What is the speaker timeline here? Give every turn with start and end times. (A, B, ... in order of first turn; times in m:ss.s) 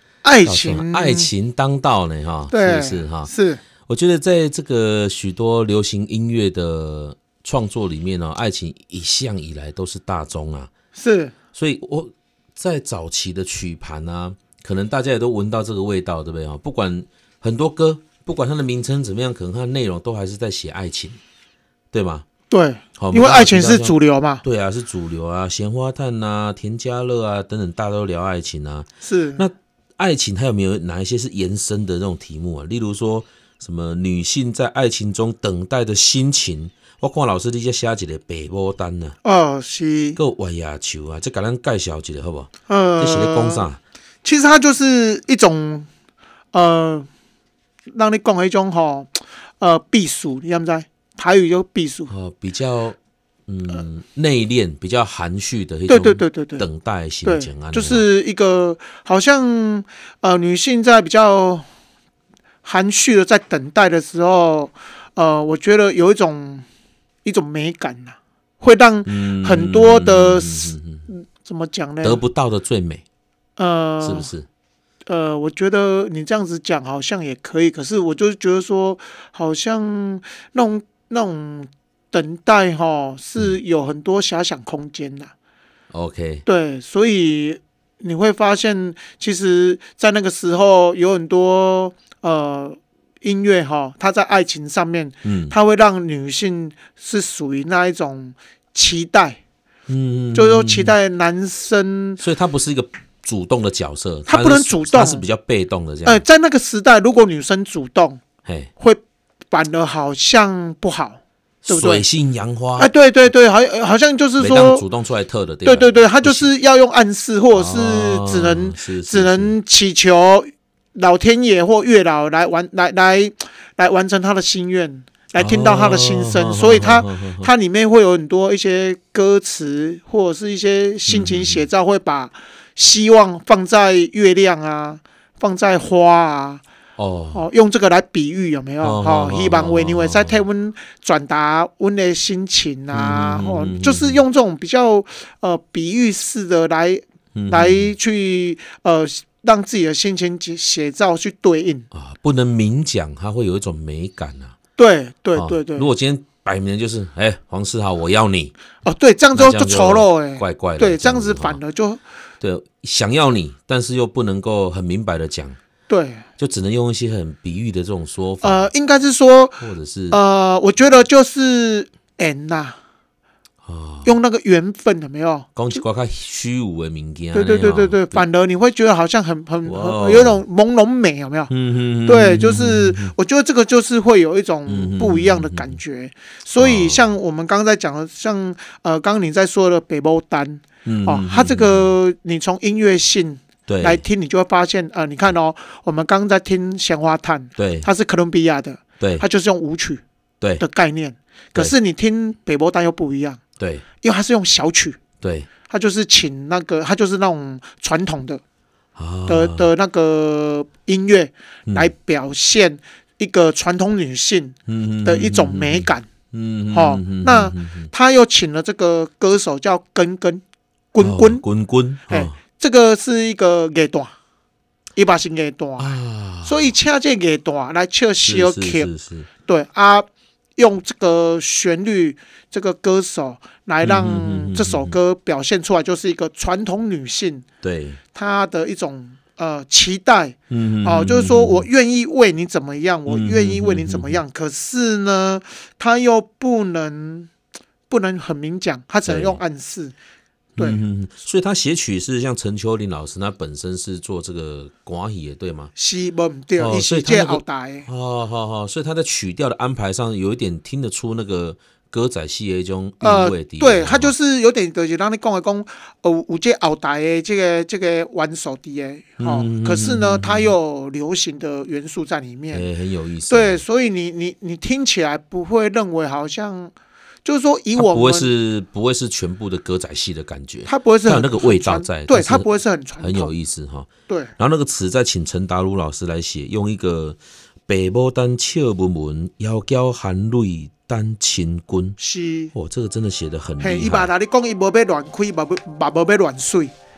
0:00.2-0:01.3 A
0:00.4-0:03.3 B
0:02.5-0:03.6 A
0:03.8-0:10.7 B
0:10.9-0:11.3 A
0:11.5-0:21.2 B
0:21.9-0:22.2 B
0:22.5-0:24.4 A
0:23.0-0:39.2 B
0:29.0-0:29.4 A
0:39.2-0:40.2 A
0:40.2-0:43.8 B
0:42.7-0:43.7 A
0:44.2-0:45.9 A
0:46.5-0:47.1 A
0:47.9-0:52.1 A
0:52.1-0:58.0 B
0:55.9-0:56.7 A
0:57.2-1:01.6 A
1:02.6-1:06.6 A
1:07.2-1:12.2 A
1:09.0-1:11.1 B
1:12.0-1:13.0 B
1:13.6-1:14.3 A
1:14.0-1:14.5 B
1:15.0-1:25.3 A
1:25.9-1:26.4 B
1:26.4-1:39.4 A
1:35.2-1:35.5 B
1:39.9-1:40.9 B
1:40.3-1:42.2 A
1:42.2-1:46.2 B
1:44.3-1:45.2 A
1:46.0-1:48.2 A
1:48.4-1:48.7 B
1:48.8-1:52.0 A
1:51.6-1:52.9 B
1:52.8-1:54.8 A
1:54.4-1:56.5 B
1:55.6-2:16.6 A
1:57.5-1:59.5 B
2:05.3-2:07.5 B
2:11.1-2:11.6 B
2:17.0-2:17.4 B
2:17.3-2:31.9 A
2:18.8-2:20.4 B
2:22.9-2:24.2 B
2:27.3-2:27.9 B
2:31.9-2:34.6 B
2:34.8-2:35.9 A
2:35.3-2:38.5 B
2:38.8-2:42.0 A
2:39.3-2:41.6 B
2:42.4-2:45.6 B
2:45.9-2:46.2 A
2:46.4-2:48.7 B
2:48.4-2:52.8 A
2:49.6-2:50.2 B
2:53.6-2:54.1 B
2:54.0-2:55.6 A
2:55.5-2:58.2 B
2:57.3-3:01.5 A
2:59.6-3:00.4 B
3:01.5-3:03.1 B
3:02.0-3:20.0 A
3:04.7-3:05.8 B
3:06.6-3:07.0 B
3:10.8-3:11.9 B
3:13.7-3:14.0 B
3:17.6-3:17.9 B
3:20.6-3:23.4 A
3:23.6-3:23.8 B
3:24.0-3:25.0 A
3:25.2-3:25.5 B
3:25.7-3:28.4 A
3:29.0-3:29.7 B
3:29.3-3:36.1 A
3:34.7-3:37.9 B
3:36.7-3:41.4 A
3:41.0-3:42.4 B
3:42.1-3:44.1 A
3:45.0-3:48.9 A
3:45.8-3:46.7 B
3:48.2-3:49.3 B
3:49.4-3:57.4 A
3:53.8-3:55.0 B
3:57.6-3:58.0 B
3:58.1-4:07.3 A
4:00.5-4:01.7 B
4:03.1-4:04.2 B
4:07.9-4:09.9 A
4:09.0-4:09.4 B
4:10.6-4:15.7 B
4:15.8-4:17.9 A
4:16.6-4:24.1 B
4:23.0-4:32.6 A
4:29.2-4:30.5 B
4:32.5-4:33.6 B
4:33.3-4:36.7 A
4:37.2-4:38.3 A
4:37.7-4:42.5 B
4:40.6-4:43.3 A
4:43.0-4:52.0 B
4:44.1-4:44.3 A
4:52.0-4:52.5 A
4:52.5-4:54.1 B
4:53.6-4:56.7 A